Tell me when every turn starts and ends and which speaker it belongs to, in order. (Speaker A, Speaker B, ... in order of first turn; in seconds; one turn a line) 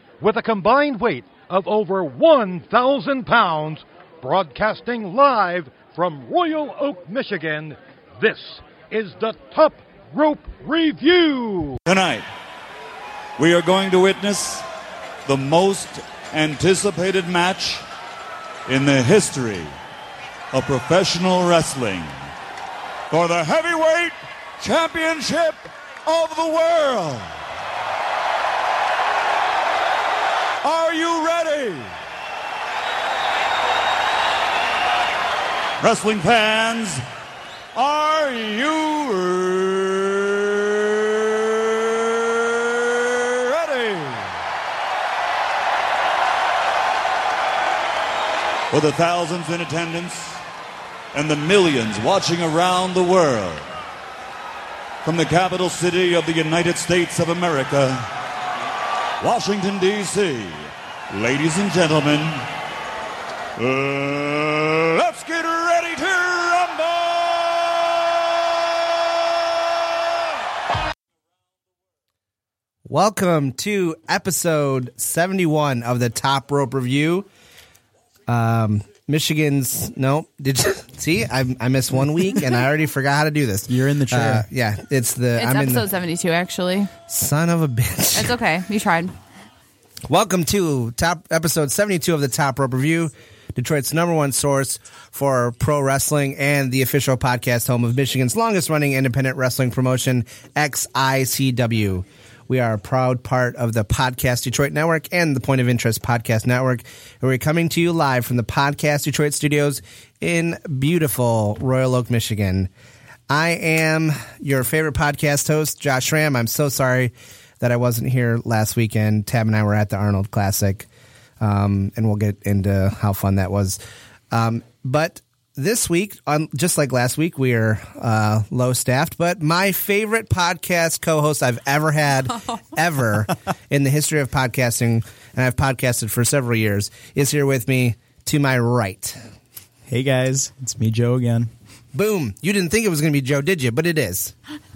Speaker A: 0.2-11.8
Speaker B: 11.9-12.3
Speaker B: 13.4-14.7
Speaker B: 15.2-17.9
Speaker B: 18.7-19.7
Speaker B: 20.5-22.3
Speaker B: 23.1-27.3
Speaker B: 30.6-31.9
Speaker B: 35.8-37.0
Speaker B: 37.8-44.3
Speaker B: 48.7-50.4
Speaker B: 51.1-53.7
Speaker B: 55.0-58.0
Speaker B: 59.2-62.5
Speaker B: 63.6-69.6
Speaker C: 72.9-77.3
Speaker C: 78.3-85.9
Speaker D: 83.7-84.5
Speaker E: 85.4-86.9
Speaker C: 87.1-88.3
Speaker E: 88.1-89.2
Speaker C: 90.1-112.7
Speaker C: 113.3-120.9
Speaker C: 121.4-123.8
Speaker C: 124.3-139.2
Speaker D: 139.9-141.5
Speaker C: 141.9-144.3